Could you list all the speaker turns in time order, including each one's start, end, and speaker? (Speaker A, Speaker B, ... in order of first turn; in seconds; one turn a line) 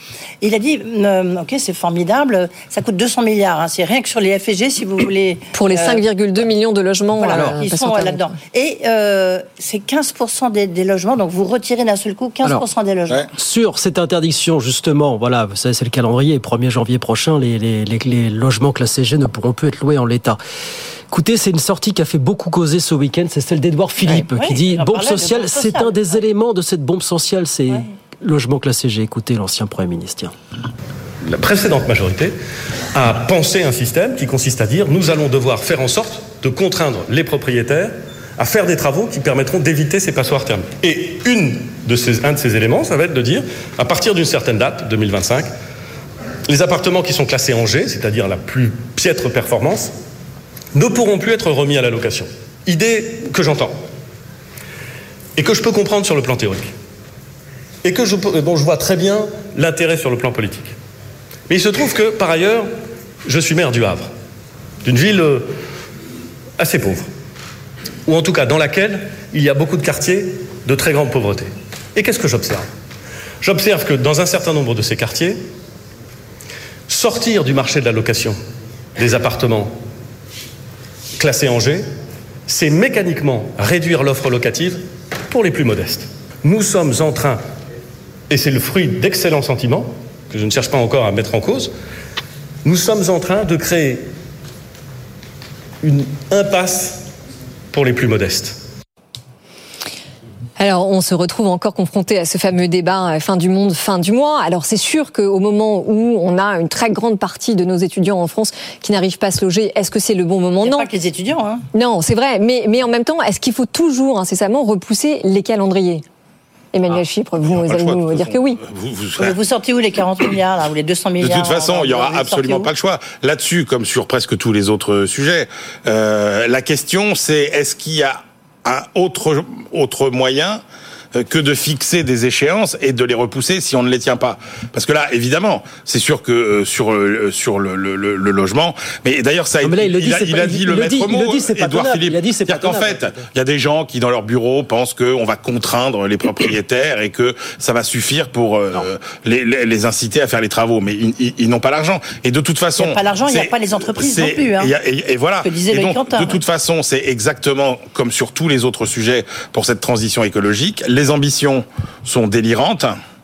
Speaker A: 0.4-6.0
Speaker B: 5.5-8.3
Speaker A: 7.2-13.2
Speaker C: 7.3-7.6
Speaker C: 13.3-20.4
Speaker C: 21.1-30.3
Speaker A: 24.0-26.2
Speaker D: 31.2-32.4
Speaker D: 32.9-45.5
Speaker D: 46.5-49.9
Speaker D: 50.7-53.8
Speaker D: 55.4-56.7
Speaker D: 57.8-60.7
Speaker D: 61.5-62.7
Speaker D: 63.2-64.1
Speaker D: 64.8-65.5
Speaker D: 66.6-67.1
Speaker D: 68.1-72.7
Speaker D: 73.4-75.4
Speaker D: 76.9-78.4
Speaker D: 79.0-79.7
Speaker D: 81.2-81.9
Speaker D: 82.5-87.4
Speaker D: 88.3-91.7
Speaker D: 92.6-94.1
Speaker D: 95.8-97.1
Speaker D: 97.7-98.6
Speaker B: 100.6-110.9
Speaker A: 110.6-111.6
Speaker B: 111.7-116.0
Speaker B: 116.7-118.6
Speaker E: 116.9-119.4
Speaker A: 119.2-122.7
Speaker E: 121.2-130.6
Speaker E: 131.2-163.0
Speaker C: 139.6-143.2
Speaker A: 152.8-154.7
Speaker A: 155.4-156.4